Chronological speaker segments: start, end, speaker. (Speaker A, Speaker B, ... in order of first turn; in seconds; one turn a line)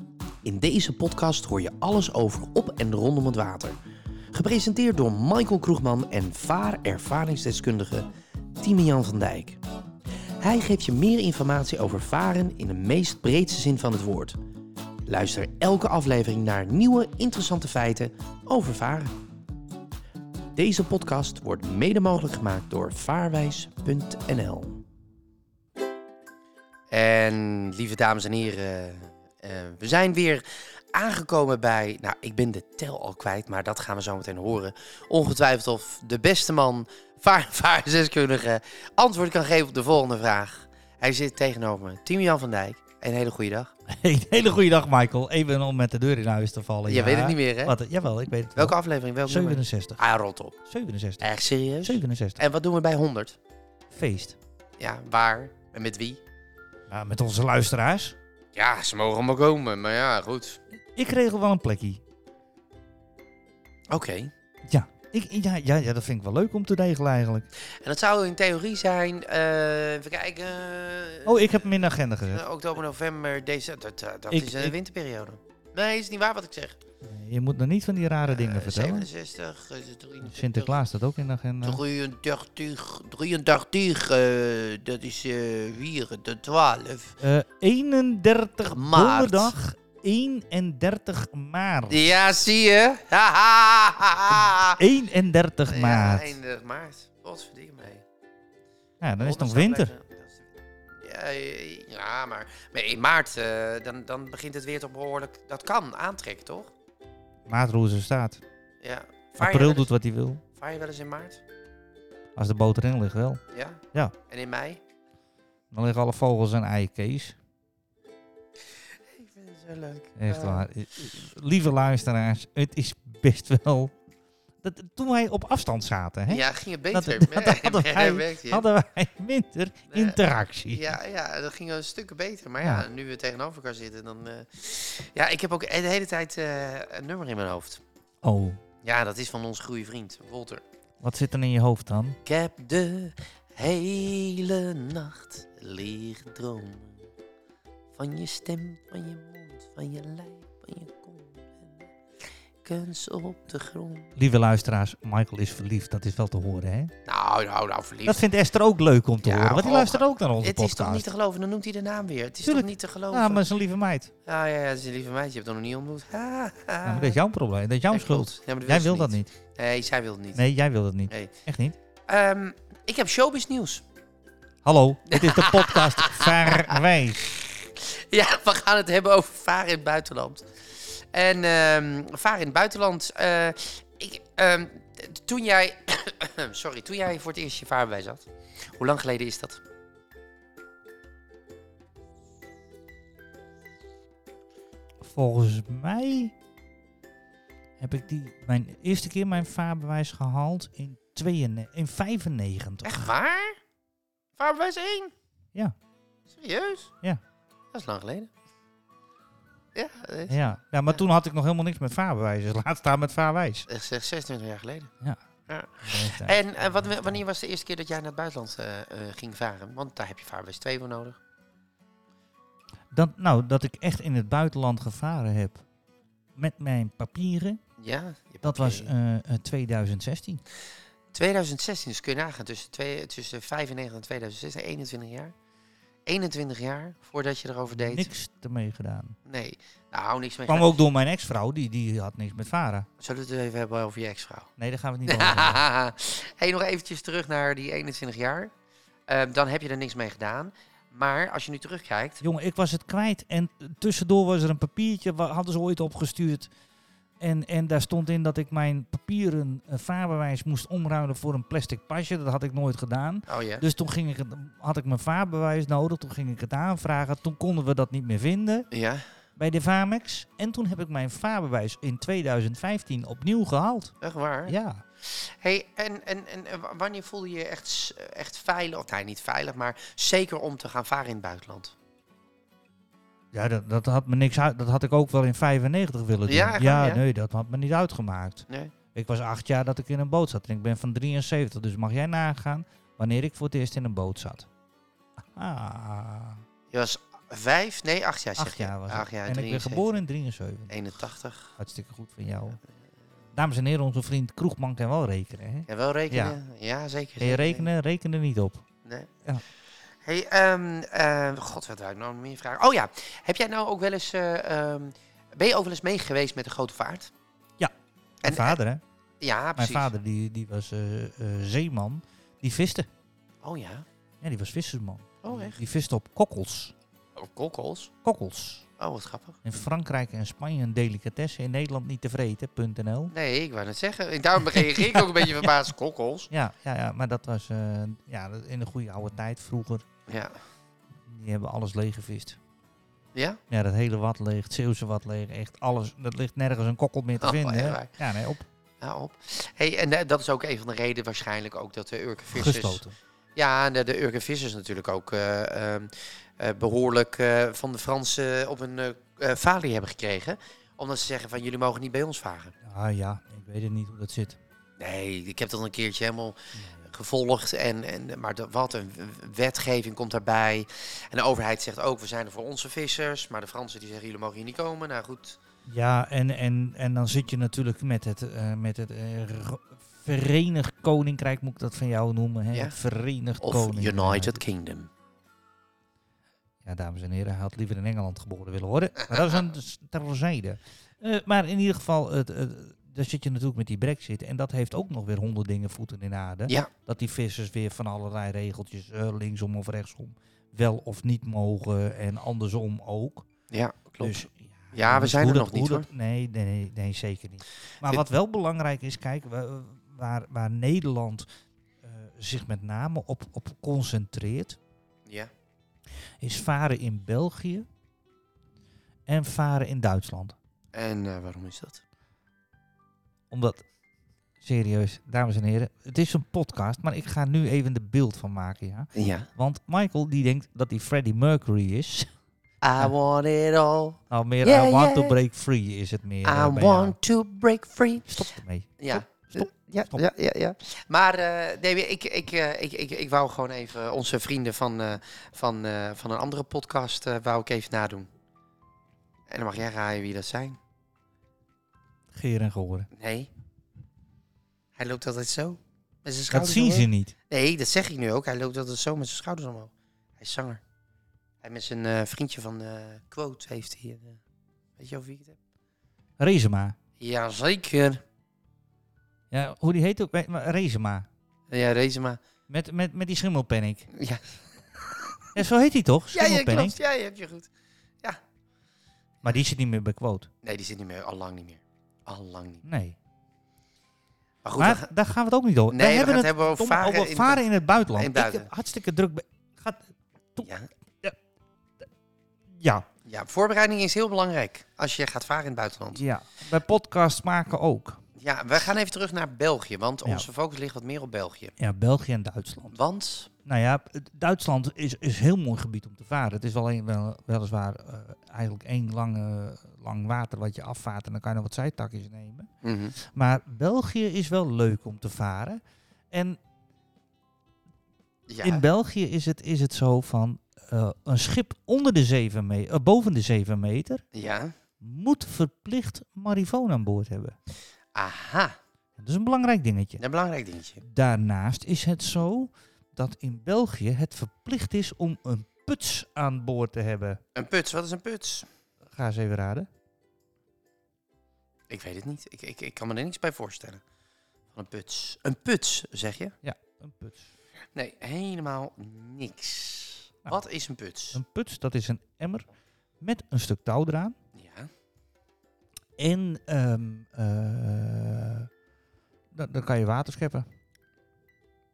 Speaker A: 0.4-3.8
Speaker A: 4.3-8.1
Speaker A: 8.6-9.6
Speaker A: 10.4-14.4
Speaker A: 15.1-19.1
Speaker A: 20.6-24.8
Speaker A: 26.9-43.7
Speaker B: 43.9-50.0
Speaker A: 46.9-47.8
Speaker A: 48.5-50.5
Speaker B: 50.7-51.3
Speaker A: 51.2-53.4
Speaker B: 51.8-52.4
Speaker B: 53.9-54.4
Speaker A: 54.8-56.2
Speaker B: 56.9-58.1
Speaker A: 58.5-60.6
Speaker B: 60.9-62.0
Speaker A: 63.9-64.3
Speaker B: 64.7-67.5
Speaker A: 67.6-76.8
Speaker B: 71.2-72.4
Speaker B: 74.3-74.7
Speaker B: 77.0-79.1
Speaker A: 78.3-80.8
Speaker B: 80.3-81.8
Speaker A: 81.6-87.2
Speaker B: 87.2-92.0
Speaker A: 88.6-89.5
Speaker A: 91.9-94.8
Speaker B: 94.7-96.4
Speaker A: 95.7-98.0
Speaker B: 99.0-99.9
Speaker A: 99.2-106.7
Speaker B: 107.5-108.4
Speaker A: 108.8-109.9
Speaker B: 109.4-110.4
Speaker A: 110.5-111.4
Speaker B: 112.3-113.4
Speaker A: 113.5-114.8
Speaker B: 115.7-117.3
Speaker A: 119.1-121.1
Speaker B: 120.2-123.9
Speaker B: 124.6-131.0
Speaker A: 126.3-128.7
Speaker A: 129.9-137.8
Speaker B: 138.2-138.6
Speaker A: 138.8-140.6
Speaker B: 141.0-142.2
Speaker A: 142.2-147.0
Speaker A: 147.9-151.8
Speaker A: 152.6-154.1
Speaker B: 154.2-156.9
Speaker A: 157.1-158.2
Speaker B: 158.0-161.1
Speaker A: 159.2-163.4
Speaker B: 162.4-164.1
Speaker A: 164.2-167.2
Speaker B: 166.8-169.3
Speaker A: 167.9-170.4
Speaker B: 170.3-171.7
Speaker A: 172.1-173.8
Speaker B: 174.6-177.4
Speaker A: 175.1-176.8
Speaker A: 177.3-189.6
Speaker B: 195.0-196.3
Speaker B: 197.8-203.1
Speaker A: 202.8-203.6
Speaker A: 204.4-205.1
Speaker A: 206.3-206.9
Speaker A: 207.7-208.3
Speaker A: 209.7-210.4
Speaker B: 210.3-213.7
Speaker A: 213.7-214.9
Speaker A: 215.5-221.2
Speaker B: 215.8-217.2
Speaker B: 222.9-225.6
Speaker B: 226.3-227.6
Speaker A: 227.8-228.9
Speaker B: 228.4-230.4
Speaker A: 231.1-235.3
Speaker A: 236.1-238.1
Speaker B: 237.8-239.2
Speaker A: 239.2-240.8
Speaker B: 240.5-242.9
Speaker A: 243.0-244.5
Speaker B: 244.6-245.7
Speaker A: 245.1-248.5
Speaker A: 249.1-252.2
Speaker B: 252.2-256.5
Speaker B: 257.2-268.7
Speaker A: 263.3-263.6
Speaker A: 268.7-269.0
Speaker B: 269.4-273.9
Speaker A: 274.0-281.7
Speaker B: 274.5-274.8
Speaker B: 283.3-294.5
Speaker A: 286.3-287.0
Speaker A: 288.5-288.7
Speaker B: 295.3-296.4
Speaker A: 296.7-300.0
Speaker B: 298.4-300.7
Speaker A: 300.7-301.5
Speaker B: 301.6-302.6
Speaker B: 303.3-306.4
Speaker A: 305.7-307.7
Speaker B: 307.2-308.6
Speaker A: 308.8-309.1
Speaker A: 310.0-317.1
Speaker A: 318.2-318.6
Speaker B: 318.2-318.8
Speaker A: 319.2-319.9
Speaker B: 319.6-322.9
Speaker A: 323.4-323.9
Speaker B: 324.2-326.7
Speaker A: 325.2-325.6
Speaker A: 327.1-327.9
Speaker B: 328.0-328.6
Speaker A: 328.8-329.4
Speaker B: 329.4-333.1
Speaker A: 333.1-336.3
Speaker B: 334.6-335.5
Speaker B: 336.3-339.8
Speaker A: 340.1-340.3
Speaker B: 341.1-342.4
Speaker A: 343.1-343.4
Speaker B: 343.5-348.4
Speaker A: 347.2-347.9
Speaker A: 348.8-352.8
Speaker B: 352.3-352.9
Speaker A: 353.4-362.5
Speaker B: 362.6-364.4
Speaker A: 364.8-375.4
Speaker B: 375.7-384.4
Speaker A: 383.4-384.9
Speaker B: 386.6-403.3
Speaker A: 403.5-405.9
Speaker B: 404.0-411.2
Speaker B: 411.8-414.6
Speaker B: 416.2-417.6
Speaker B: 419.1-420.4
Speaker A: 420.7-421.8
Speaker B: 423.3-423.6
Speaker B: 424.4-432.1
Speaker A: 428.9-429.3
Speaker A: 432.6-435.2
Speaker B: 434.1-436.9
Speaker A: 436.2-438.3
Speaker B: 438.1-440.0
Speaker A: 438.8-448.1
Speaker A: 449.3-450.6
Speaker B: 452.1-452.9
Speaker A: 452.9-453.3
Speaker A: 454.8-460.6
Speaker B: 456.3-457.1
Speaker A: 461.4-464.2
Speaker A: 464.8-465.4
Speaker B: 466.2-466.8
Speaker A: 467.0-468.0
Speaker B: 469.3-471.1
Speaker A: 471.5-472.2
Speaker B: 472.5-473.9
Speaker A: 473.9-475.3
Speaker B: 475.3-476.7
Speaker A: 476.1-477.5
Speaker B: 479.2-480.3
Speaker A: 480.4-482.6
Speaker B: 482.6-482.9
Speaker A: 484.4-484.9
Speaker B: 484.6-490.5
Speaker A: 485.7-488.5
Speaker A: 490.4-490.7
Speaker B: 492.5-492.9
Speaker A: 493.0-496.0
Speaker B: 495.9-498.0
Speaker A: 498.2-501.5
Speaker B: 501.6-502.8
Speaker A: 502.7-503.3
Speaker B: 503.4-512.5
Speaker A: 512.6-513.0
Speaker B: 513.0-515.6
Speaker B: 516.1-516.4
Speaker A: 518.3-518.6
Speaker B: 518.4-524.0
Speaker A: 524.1-524.5
Speaker B: 524.8-527.4
Speaker A: 527.9-528.5
Speaker B: 529.0-530.0
Speaker A: 530.0-530.8
Speaker B: 530.8-537.2
Speaker A: 537.3-538.5
Speaker B: 538.9-539.7
Speaker A: 541.7-543.8
Speaker A: 544.5-546.4
Speaker B: 546.4-547.3
Speaker A: 547.7-551.2
Speaker B: 551.1-552.5
Speaker B: 553.0-554.1
Speaker A: 554.4-554.7
Speaker B: 556.0-558.5
Speaker B: 559.3-560.5